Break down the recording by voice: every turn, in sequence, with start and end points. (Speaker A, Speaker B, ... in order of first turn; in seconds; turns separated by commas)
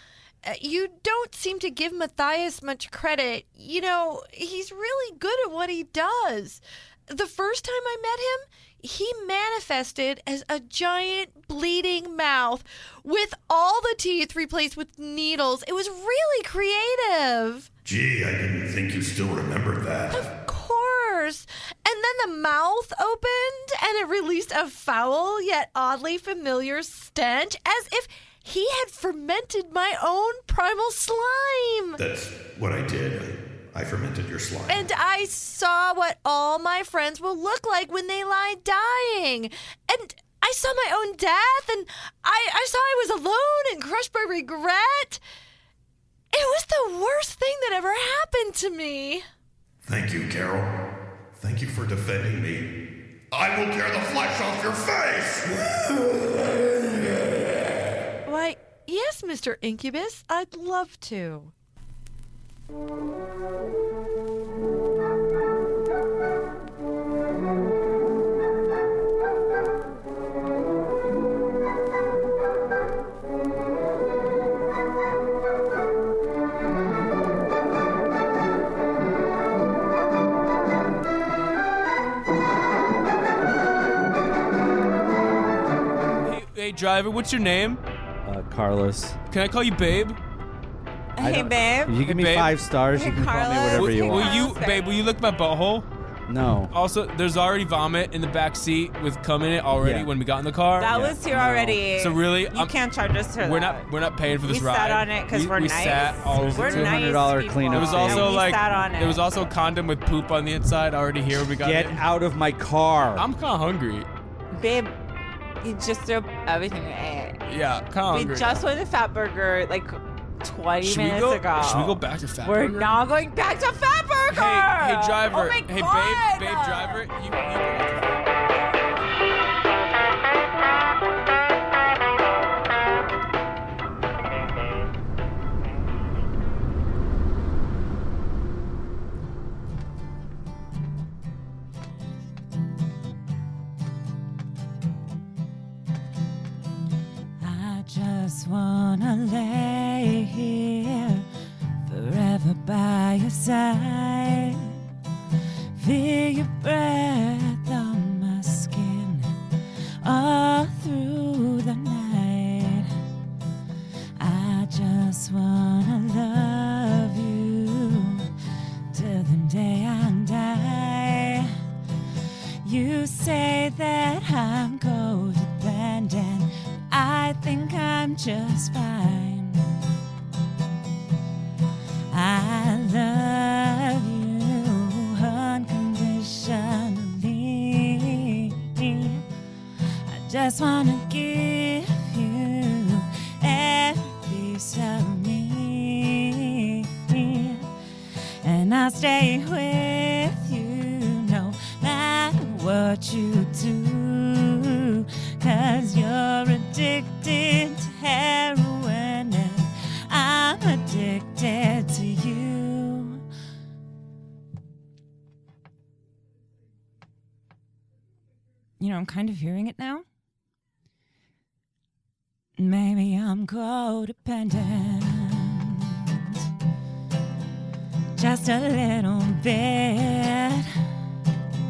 Speaker A: 0.4-17.7, Speaker B: 17.8-20.3, Speaker A: 20.1-32.0, Speaker B: 32.0-34.8, Speaker A: 34.7-45.2, Speaker A: 46.3-49.2, Speaker B: 49.8-50.7, Speaker B: 51.4-52.6, Speaker B: 53.3-55.5, Speaker A: 58.2-61.5, Speaker C: 86.2-87.8, Speaker D: 88.2-89.2, Speaker C: 89.3-90.2, Speaker E: 91.2-92.0, Speaker D: 91.2-94.3, Speaker C: 92.0-92.8, Speaker E: 92.9-94.9, Speaker C: 93.7-95.8, Speaker D: 96.3-96.7, Speaker C: 96.7-102.8, Speaker D: 99.8-100.1, Speaker E: 100.8-103.9, Speaker D: 101.4-101.7, Speaker C: 103.4-107.2, Speaker E: 104.4-109.2, Speaker D: 106.3-108.4, Speaker C: 107.7-112.0, Speaker D: 111.6-113.2, Speaker C: 113.1-114.1, Speaker E: 114.5-114.9, Speaker E: 115.6-117.4, Speaker C: 117.5-118.6, Speaker E: 118.1-127.0, Speaker C: 120.8-123.0, Speaker C: 124.3-128.1, Speaker F: 147.4-151.2, Speaker F: 151.9-154.7, Speaker F: 155.8-159.3, Speaker F: 160.0-162.9, Speaker F: 164.2-168.3, Speaker F: 168.9-171.5, Speaker F: 172.6-179.6, Speaker F: 182.1-189.2, Speaker F: 190.1-197.6, Speaker F: 198.4-213.2, Speaker F: 218.8-220.0, Speaker F: 222.6-225.8, Speaker F: 228.2-230.7